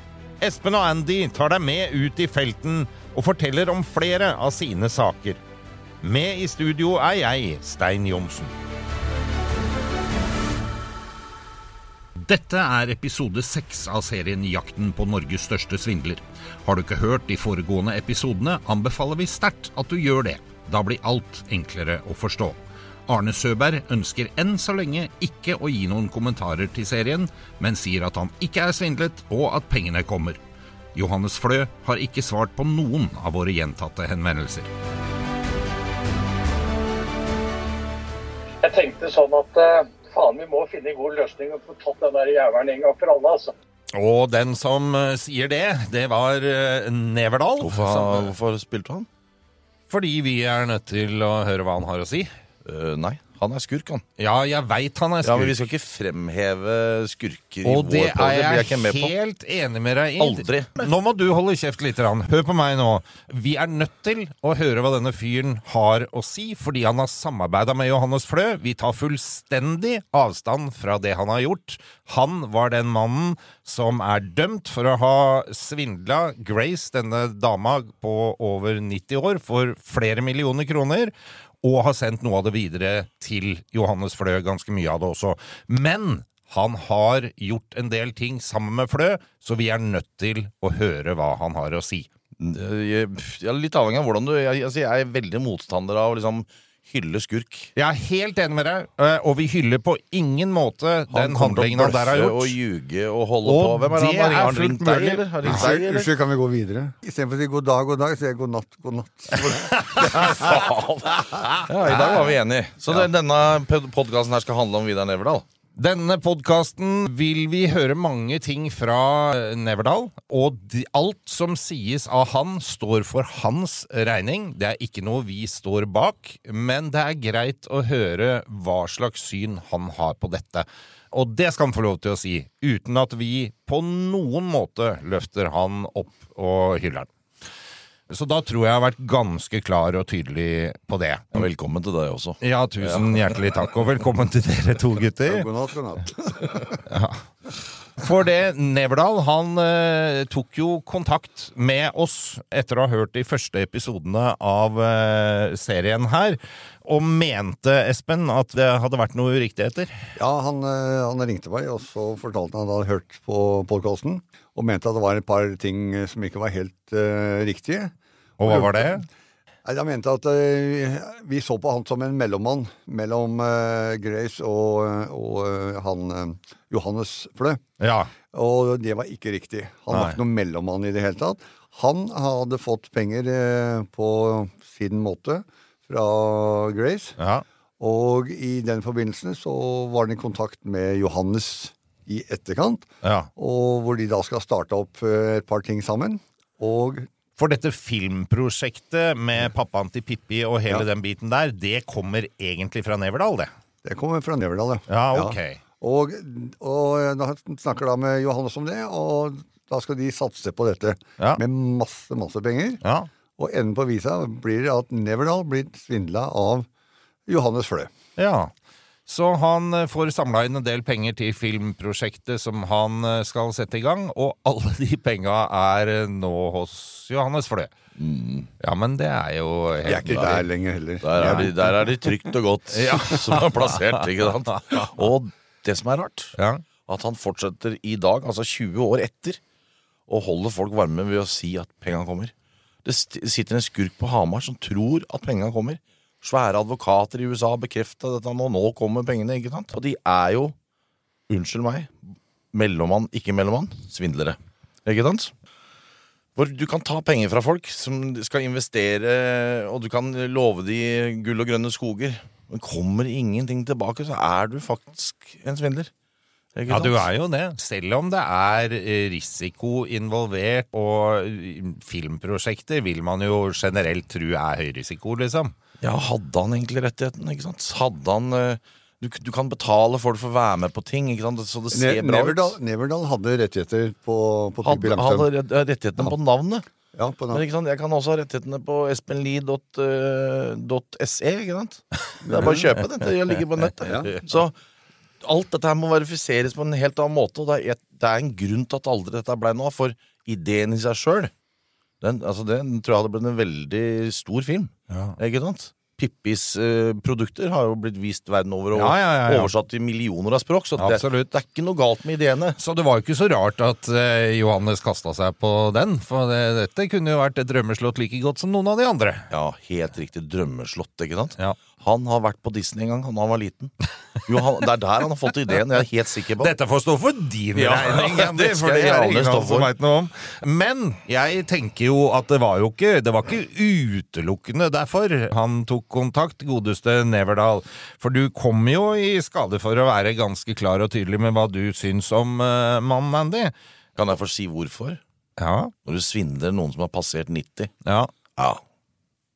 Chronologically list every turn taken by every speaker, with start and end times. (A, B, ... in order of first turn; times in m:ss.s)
0:00.4-0:05.4 A
0:06.0-0:08.5 A
0:12.2-0:22.6 A
0:23.1-0:30.4 A
0:31.0-0:34.7 A
0:38.6-0:43.5 B
0:43.9-0:48.3 A
0:47.6-0:49.1 C
0:49.9-0:52.3 A
0:52.6-0:54.0 C
0:54.2-0:55.6 A
0:55.2-0:59.1 C
0:57.6-1:32.1 A
1:00.2-1:00.9 C
1:32.4-1:37.7 C
1:37.8-1:42.6 A
1:41.1-1:46.1 C
1:43.4-1:45.7 A
1:45.4-1:50.5 D
1:49.4-1:50.6 A
1:50.0-1:55.4 C
1:51.1-1:53.1 A
1:55.8-2:17.1 A
2:18.1-2:21.4 A
2:21.3-2:23.4 C
2:22.4-2:25.5 A
2:25.3-2:26.8 D
2:26.9-2:27.2 A
2:28.0-2:39.9 A
2:40.2-2:47.9 D
2:48.4-2:49.1 A
2:48.5-2:49.0 D
2:49.6-2:57.6 D
2:57.8-2:58.1 A
2:58.3-3:07.2 D
2:59.9-3:00.2 A
3:07.2-3:07.4 A
3:07.8-3:17.1 D
3:13.0-3:13.3 A
3:17.4-3:23.5 A
3:23.8-3:32.8 D
3:24.9-3:25.6 A
3:33.4-3:36.7 D
3:37.3-3:37.9 D
3:38.2-3:38.5 A
3:39.1-3:47.7 A
3:48.0-3:48.5 C
3:48.6-3:50.5 A
3:49.8-3:51.5 D
3:51.0-3:59.4 C
3:51.2-3:51.7 A
3:52.7-3:54.9 A
3:56.4-3:56.6 A
4:00.1-4:02.3 C
4:02.8-4:10.6 C
4:11.3-4:15.3 C
4:16.4-4:25.9 C
4:26.6-4:27.1 C
4:26.7-4:35.5 A
4:35.8-4:42.5 C
4:41.7-4:45.3 D
4:44.6-4:46.7 C
4:46.9-4:47.5 D
4:47.3-4:54.6 C
4:52.2-4:52.7 D
4:53.8-4:54.1 D
4:55.2-5:01.3 C
5:02.0-5:12.6 C
5:04.9-5:05.2 A
5:08.7-5:09.5 A
5:10.8-5:11.3 A
5:12.6-5:19.3 A
5:19.3-5:23.7 C
5:24.3-5:26.5 C
5:26.4-5:43.5 A
5:27.6-5:29.7 C
5:44.0-5:45.0 C
5:45.4-5:45.7 A
5:45.8-5:47.7 C
5:47.8-5:48.1 A
5:48.4-5:48.6 C